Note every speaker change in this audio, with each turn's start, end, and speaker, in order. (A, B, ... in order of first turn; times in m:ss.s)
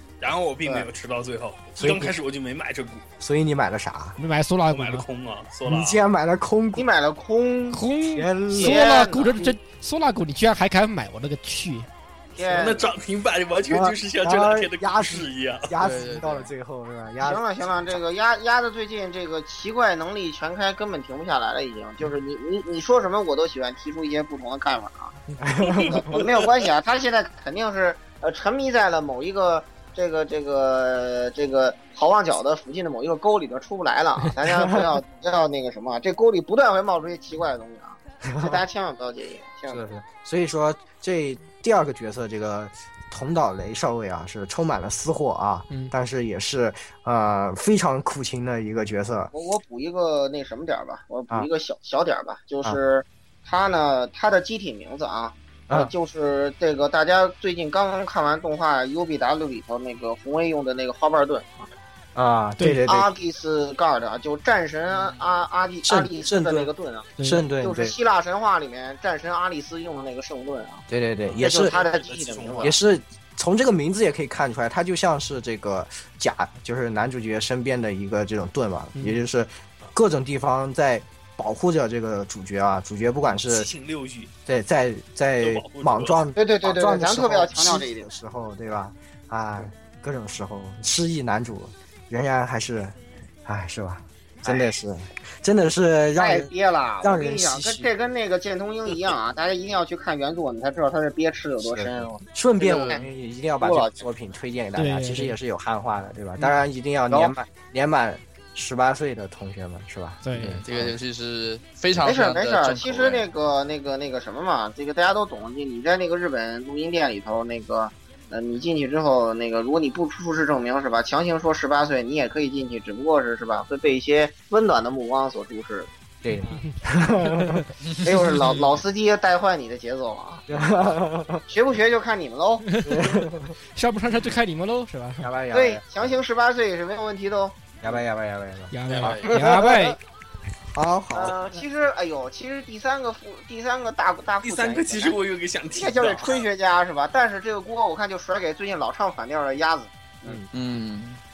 0:00.2-0:03.0 A
0:01.8-0:02.1 B
0:03.2-0:04.2 B
0:04.2-0:05.0 C
0:04.7-0:06.0 A
0:05.6-0:06.8 B
0:06.7-0:07.8 D
0:07.7-0:11.9 C
0:08.0-0:08.8 B
0:08.5-0:09.5 D
0:12.4-0:12.9 D
0:12.4-0:15.7 A
0:13.7-0:18.0 B
0:15.8-0:16.5 E
0:17.2-0:25.2 D
0:25.4-0:26.2 B
0:25.7-0:39.8 D
0:25.7-0:26.6 A
0:34.4-0:34.9 B
0:38.2-0:38.6 B
0:39.7-0:49.3 B
0:49.3-1:01.7 D
1:02.1-1:03.1 B
1:02.6-1:02.8 C
1:02.9-1:10.8 D
1:05.8-1:06.7 B
1:07.2-1:07.4 C
1:07.2-1:07.9 B
1:10.9-1:11.8 B
1:11.2-1:12.8 A
1:11.4-1:12.7 D
1:12.6-1:23.7 B
1:18.9-1:19.2 C
1:23.2-1:24.3 A
1:24.4-1:36.5 B
1:25.4-1:26.2 A
1:26.4-1:28.0 D
1:36.2-1:43.0 D
1:37.0-1:37.9 B
1:41.6-1:51.0 B
1:42.6-1:43.0 E
1:43.6-1:44.1 D
1:44.8-1:45.3 C
1:50.2-1:50.6 C
1:50.4-1:53.2 E
1:52.0-2:05.9 D
2:06.2-2:07.6 B
2:07.2-2:07.6 C
2:07.8-2:08.7 E
2:08.0-2:10.4 D
2:10.5-2:11.4 B
2:11.5-2:12.8 D
2:12.8-2:13.6 B
2:13.7-2:15.3 C
2:15.2-2:16.2 B
2:15.5-2:17.8 D
2:17.8-2:18.7 B
2:18.7-2:20.0 C
2:18.9-2:19.2 A
2:19.0-2:19.4 E
2:19.3-2:19.9 D
2:20.7-2:21.4 B
2:21.1-2:25.2 D
2:24.4-2:26.5 A
2:25.7-2:30.4 D
2:30.5-2:31.2 E